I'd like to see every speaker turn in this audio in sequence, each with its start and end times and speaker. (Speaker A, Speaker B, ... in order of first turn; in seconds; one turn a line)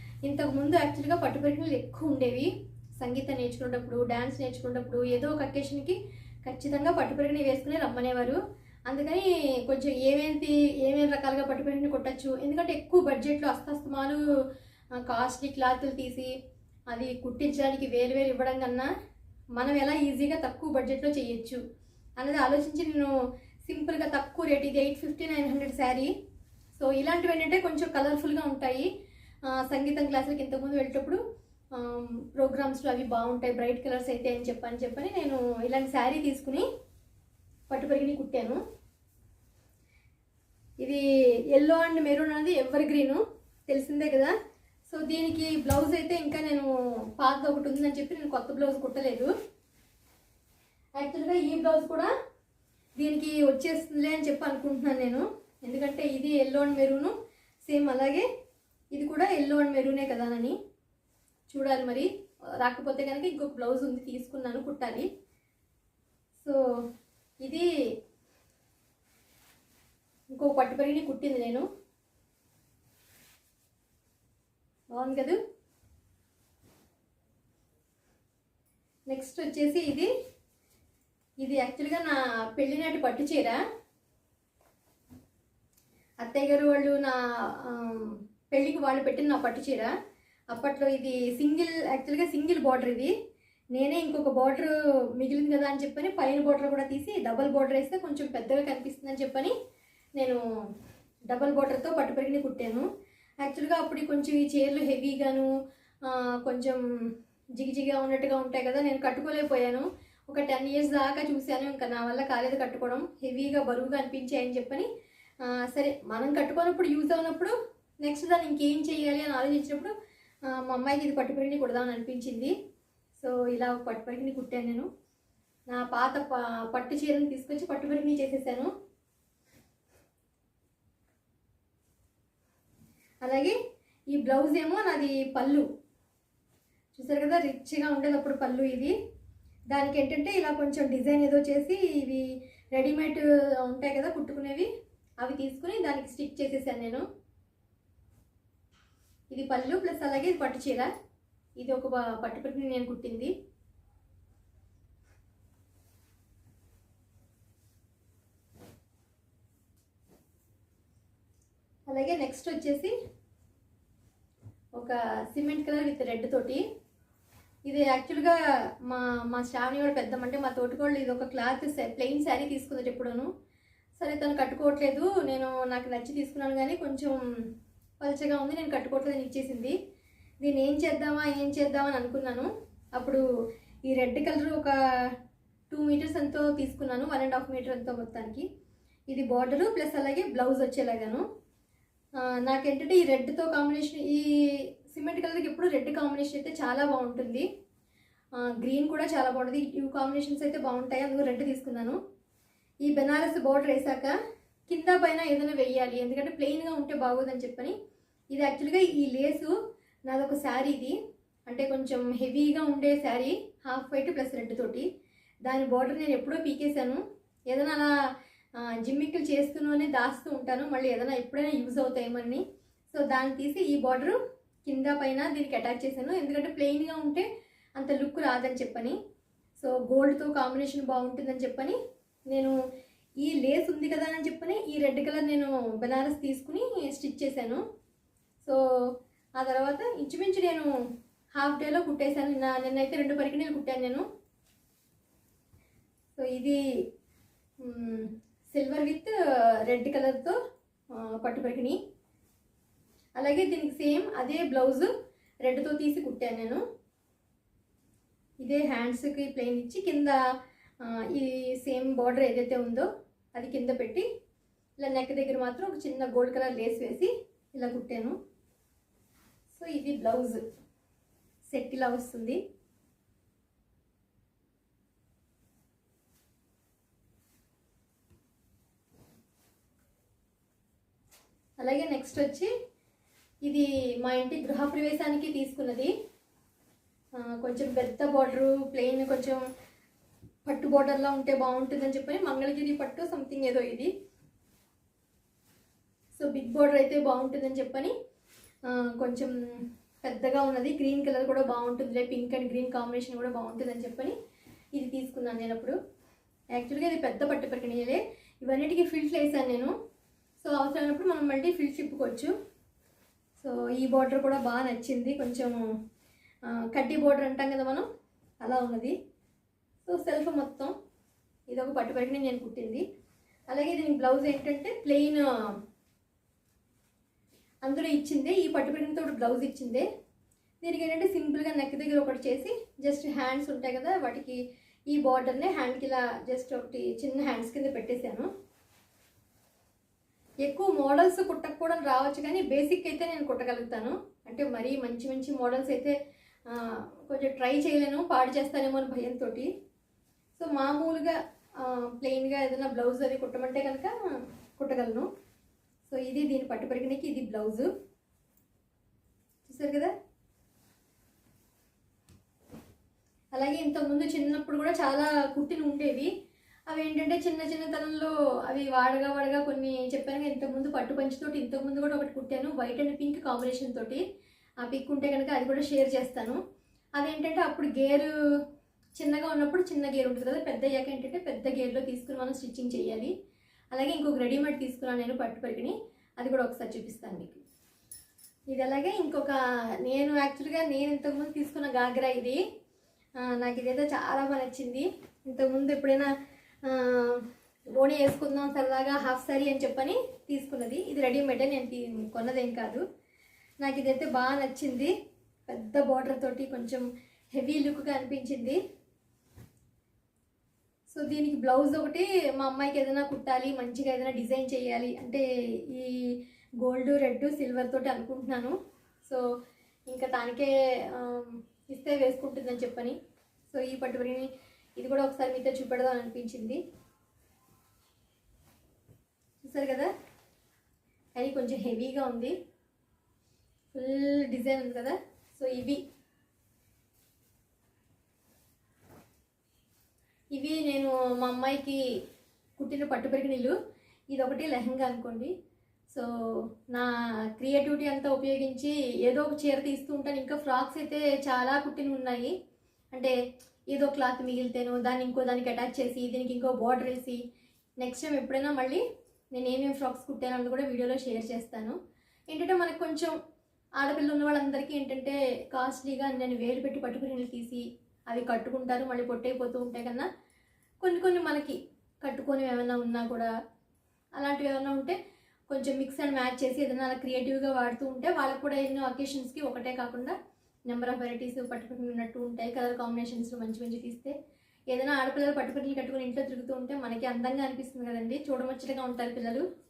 Speaker A: 0.2-14.2
Speaker A: 15.0-16.3
Speaker A: 16.9-18.9
Speaker A: 19.6-21.6
Speaker A: 22.2-23.1
Speaker A: 23.6-26.1
Speaker A: 26.8-28.9
Speaker A: 29.5-31.2
Speaker A: 31.7-36.7
Speaker A: 37.7-38.6
Speaker A: 40.8-44.4
Speaker A: 44.9-49.3
Speaker A: 51.0-52.1
Speaker A: 53.0-57.1
Speaker A: 57.6-58.3
Speaker A: 58.9-60.6
Speaker A: 61.5-62.1
Speaker A: 62.6-65.1
Speaker A: 70.3-71.7
Speaker A: 74.9-75.4
Speaker A: 79.1-80.1
Speaker A: 81.4-83.6
Speaker A: 86.2-89.9
Speaker A: 90.5-93.1
Speaker A: 93.7-99.5
Speaker A: 101.3-102.9
Speaker A: 103.4-105.5
Speaker A: 106.0-106.8
Speaker A: 107.6-114.9
Speaker A: 115.4-119.9
Speaker A: 120.5-122.5
Speaker A: 123.2-124.9
Speaker A: 125.7-128.7
Speaker A: 133.2-133.6
Speaker A: 134.1-135.7
Speaker A: 136.9-138.9
Speaker A: 139.7-144.7
Speaker A: 145.2-147.0
Speaker A: 149.3-150.9
Speaker A: 151.6-153.3
Speaker A: 161.9-162.9
Speaker A: 164.8-166.6
Speaker A: 167.7-168.3
Speaker A: 168.9-173.3
Speaker A: 174.0-177.2
Speaker A: 178.0-179.8
Speaker A: 180.4-183.2
Speaker A: 183.9-184.7
Speaker A: 185.7-188.5
Speaker A: 189.1-191.2
Speaker A: 192.2-194.3
Speaker A: 194.9-197.5
Speaker A: 198.4-202.0
Speaker A: 202.8-204.1
Speaker A: 204.7-207.8
Speaker A: 208.3-209.5
Speaker A: 210.1-211.0
Speaker A: 211.5-214.9
Speaker A: 215.4-217.9
Speaker A: 218.6-229.0
Speaker A: 229.6-231.8
Speaker A: 233.2-237.6
Speaker A: 239.4-240.7
Speaker A: 241.3-244.1
Speaker A: 246.2-246.6
Speaker A: 247.6-249.1
Speaker A: 249.7-250.4
Speaker A: 250.9-251.8
Speaker A: 253.2-254.9
Speaker A: 255.4-256.6
Speaker A: 258.4-260.2
Speaker A: 260.8-264.1
Speaker A: 264.8-268.2
Speaker A: 269.5-270.4
Speaker A: 271.5-272.4
Speaker A: 281.6-282.5
Speaker A: 283.4-285.9
Speaker A: 287.2-289.4
Speaker A: 290.5-293.9
Speaker A: 296.2-297.9
Speaker A: 298.7-304.1
Speaker A: 304.8-305.8
Speaker A: 306.5-309.8
Speaker A: 310.4-312.3
Speaker A: 313.4-315.6
Speaker A: 316.5-317.9
Speaker A: 318.4-318.9
Speaker A: 319.9-320.7
Speaker A: 321.5-322.9
Speaker A: 323.5-325.5
Speaker A: 327.6-329.9
Speaker A: 330.6-334.4
Speaker A: 334.9-338.3
Speaker A: 340.4-345.9
Speaker A: 346.5-349.5
Speaker A: 350.4-353.9
Speaker A: 354.6-355.1
Speaker A: 355.9-357.7
Speaker A: 359.5-359.9
Speaker A: 363.3-366.1
Speaker A: 366.7-374.0
Speaker A: 374.6-376.4
Speaker A: 377.0-378.1
Speaker A: 379.0-383.1
Speaker A: 383.7-387.4
Speaker A: 388.5-392.4
Speaker A: 393.2-396.1
Speaker A: 396.6-402.8
Speaker A: 403.6-404.9
Speaker A: 405.5-408.6
Speaker A: 410.9-416.0
Speaker A: 416.6-419.2
Speaker A: 419.9-423.0
Speaker A: 423.5-426.6
Speaker A: 429.4-429.9
Speaker A: 431.2-432.3
Speaker A: 433.7-435.8
Speaker A: 440.3-441.8
Speaker A: 442.6-443.5
Speaker A: 444.1-445.3
Speaker A: 446.7-452.3
Speaker A: 453.7-457.2
Speaker A: 457.8-458.8
Speaker A: 459.3-461.8
Speaker A: 462.3-463.1
Speaker A: 463.8-470.1
Speaker A: 470.8-473.3
Speaker A: 474.2-475.0
Speaker A: 475.5-480.2
Speaker A: 480.7-484.1
Speaker A: 484.7-489.4